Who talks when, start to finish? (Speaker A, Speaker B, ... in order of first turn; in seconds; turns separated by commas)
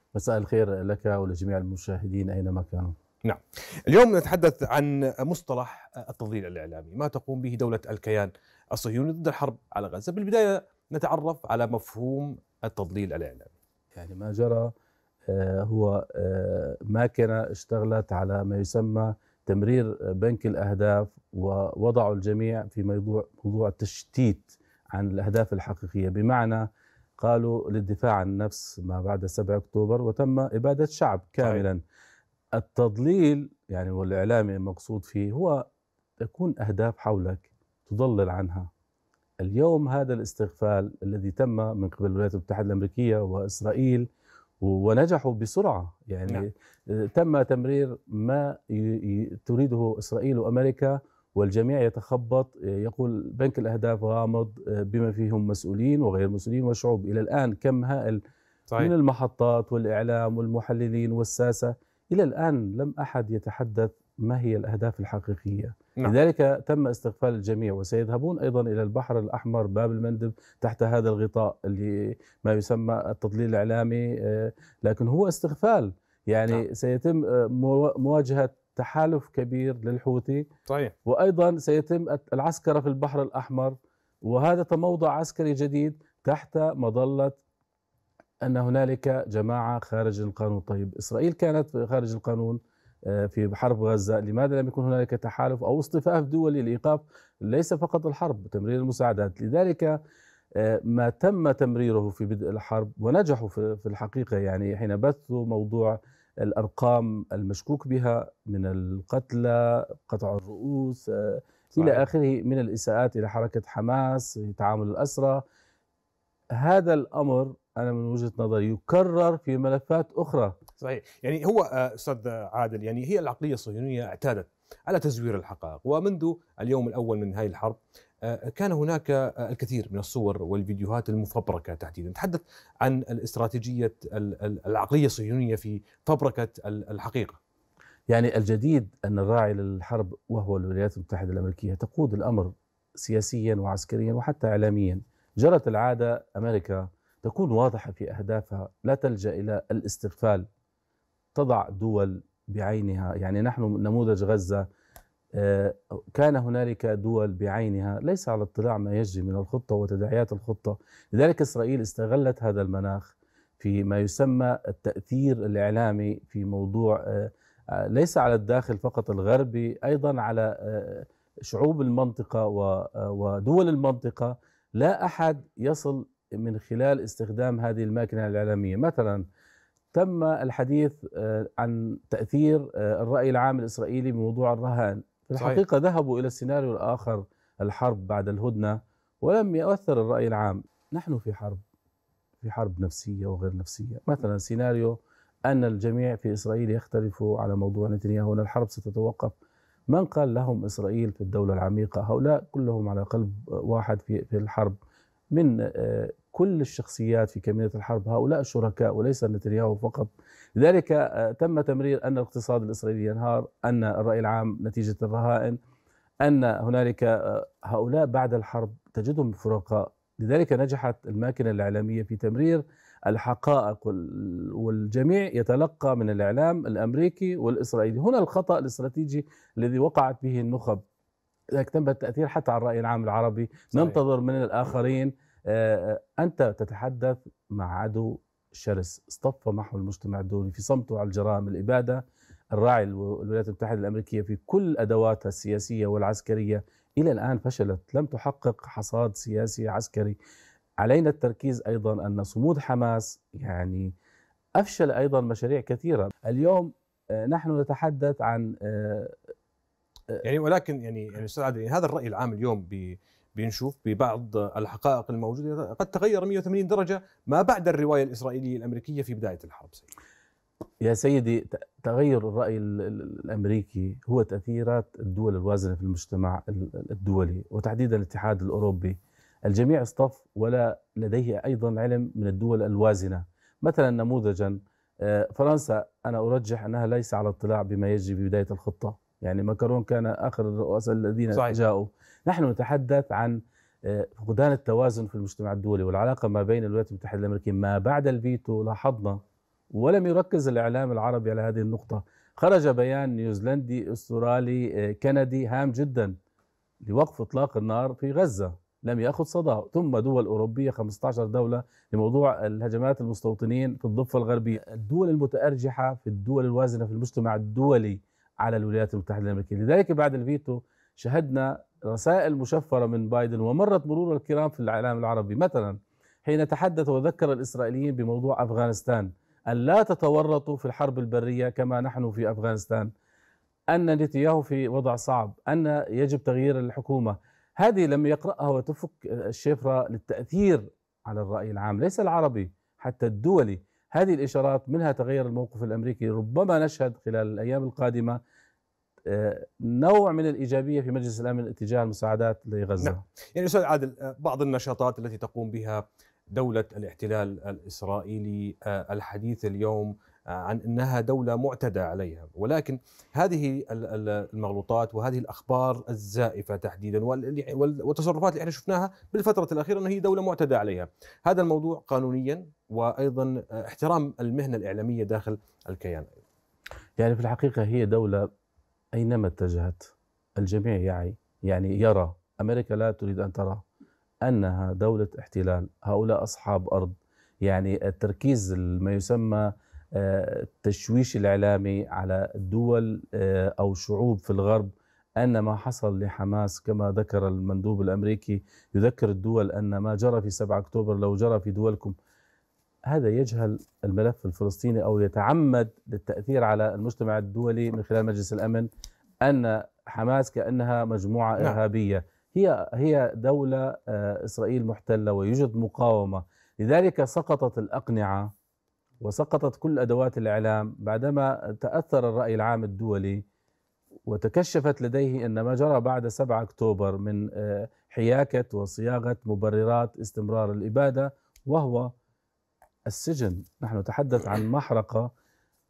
Speaker A: 0.1-2.9, Speaker B: 3.2-13.5, Speaker A: 13.9-14.7, Speaker A: 15.3-31.8, Speaker B: 31.4-31.7, Speaker A: 32.5-35.6, Speaker A: 36.2-38.7, Speaker A: 39.4-44.0, Speaker A: 44.6-58.2, Speaker A: 58.8-80.5, Speaker B: 80.7-80.9, Speaker A: 81.0-87.4, Speaker A: 88.4-100.0, Speaker A: 100.5-115.4, Speaker B: 111.8-112.1, Speaker A: 116.6-120.6, Speaker B: 120.8-137.4, Speaker A: 138.1-150.5, Speaker A: 151.3-154.7, Speaker A: 155.4-179.2, Speaker A: 179.9-191.6, Speaker B: 185.3-185.6, Speaker A: 192.4-195.0, Speaker A: 195.5-199.3, Speaker A: 199.9-204.8, Speaker A: 205.3-215.6, Speaker A: 216.2-230.8, Speaker A: 231.5-242.0, Speaker A: 242.5-250.2, Speaker A: 250.8-253.9, Speaker A: 254.6-259.2, Speaker B: 260.2-269.9, Speaker A: 270.8-299.2, Speaker A: 299.7-306.1, Speaker A: 306.8-332.9, Speaker A: 333.7-348.2, Speaker A: 349.1-353.0, Speaker B: 352.8-376.1, Speaker A: 377.0-378.3, Speaker A: 378.9-383.6, Speaker A: 384.2-401.9, Speaker A: 402.9-408.7, Speaker A: 409.2-418.3, Speaker A: 419.0-423.2, Speaker A: 424.1-431.9, Speaker A: 432.9-435.1